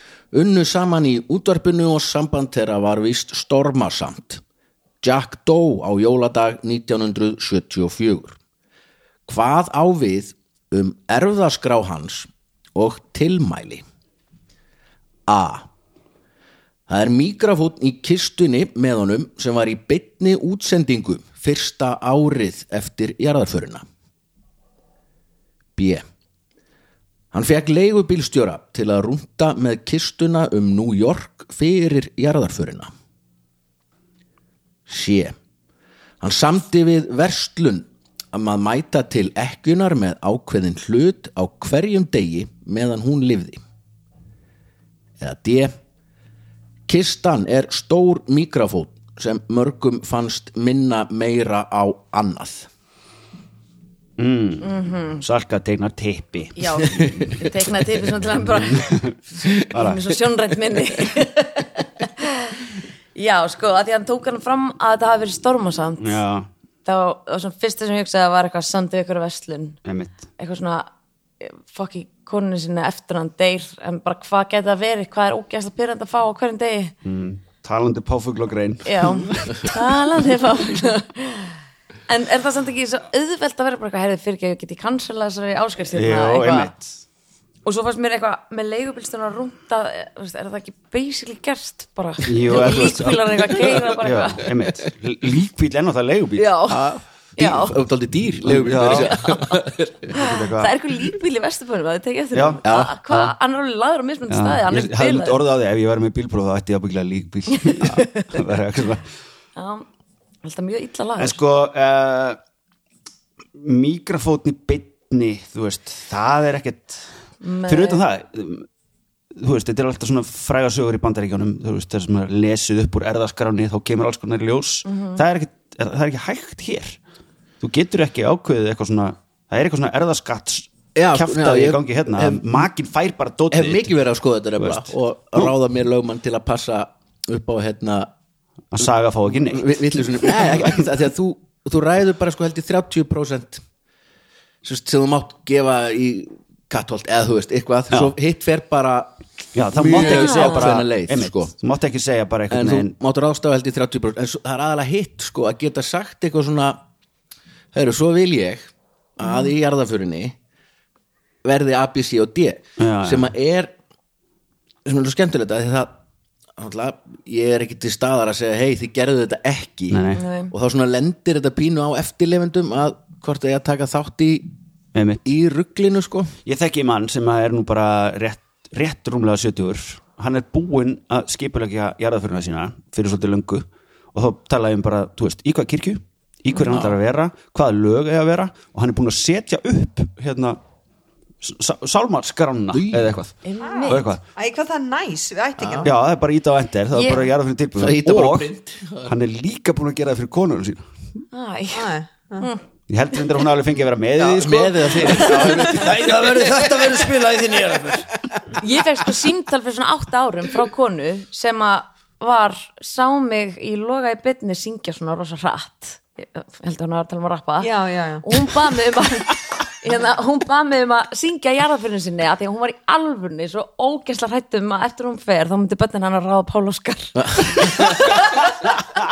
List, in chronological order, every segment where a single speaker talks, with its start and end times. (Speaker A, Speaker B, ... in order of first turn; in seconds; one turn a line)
Speaker A: 0.3-4.4
Speaker A: 5.0-8.4
Speaker A: 9.3-13.8
Speaker A: 15.3-15.7
Speaker A: 16.9-23.8
Speaker A: 25.8-26.0
Speaker A: 27.3-32.9
Speaker A: 34.9-35.3
Speaker A: 36.2-43.6
Speaker A: 45.2-45.7
Speaker A: 46.9-52.7
Speaker B: 54.2-57.0
Speaker C: 54.6-55.2
Speaker C: 56.5-59.0
Speaker A: 56.9-57.3
Speaker B: 58.5-59.2
Speaker B: 59.7-60.2
Speaker C: 59.7-62.6
Speaker C: 63.1-66.2
Speaker B: 66.0-66.5
Speaker C: 66.8-69.8
Speaker B: 69.8-70.2
Speaker C: 70.4-70.9
Speaker C: 71.4-76.9
Speaker B: 77.0-79.8
Speaker C: 78.8-81.5
Speaker C: 82.1-86.7
Speaker B: 85.9-86.9
Speaker C: 87.6-94.5
Speaker B: 92.2-96.5
Speaker A: 92.6-92.9
Speaker C: 96.4-96.8
Speaker A: 96.7-100.1
Speaker C: 97.4-97.8
Speaker B: 98.4-99.2
Speaker C: 99.1-99.5
Speaker B: 100.1-100.7
Speaker C: 100.1-105.4
Speaker B: 102.3-103.3
Speaker A: 102.6-102.9
Speaker B: 104.3-109.0
Speaker C: 107.6-108.3
Speaker C: 109.5-109.8
Speaker C: 110.4-111.4
Speaker B: 111.2-112.4
Speaker B: 113.6-117.0
Speaker C: 117.4-118.0
Speaker B: 117.7-118.7
Speaker B: 119.3-127.0
Speaker C: 124.8-125.2
Speaker B: 127.6-133.9
Speaker A: 130.9-132.7
Speaker A: 133.5-138.1
Speaker B: 134.6-135.5
Speaker B: 138.7-140.8
Speaker A: 138.8-143.6
Speaker A: 144.6-151.5
Speaker B: 147.9-148.2
Speaker B: 149.5-152.9
Speaker C: 149.9-150.7
Speaker A: 152.5-156.8
Speaker A: 157.7-160.3
Speaker A: 161.4-163.7
Speaker B: 162.8-163.3
Speaker A: 164.8-166.0
Speaker A: 166.6-174.5
Speaker B: 169.9-170.2
Speaker C: 170.1-170.5
Speaker B: 174.9-175.2
Speaker A: 175.2-176.3
Speaker B: 176.4-190.6
Speaker A: 186.7-186.9
Speaker B: 191.4-194.2
Speaker A: 192.7-193.1
Speaker C: 193.4-194.1
Speaker D: 193.6-195.9
Speaker A: 195.6-195.9
Speaker B: 195.8-198.5
Speaker C: 196.9-197.3
Speaker A: 197.8-199.1
Speaker B: 199.0-200.8
Speaker C: 201.3-202.6
Speaker D: 201.7-202.5
Speaker B: 202.9-205.6
Speaker A: 204.2-206.8
Speaker E: 205.6-208.1
Speaker C: 208.6-217.7
Speaker D: 217.6-218.2
Speaker C: 218.2-228.8
Speaker A: 227.2-228.0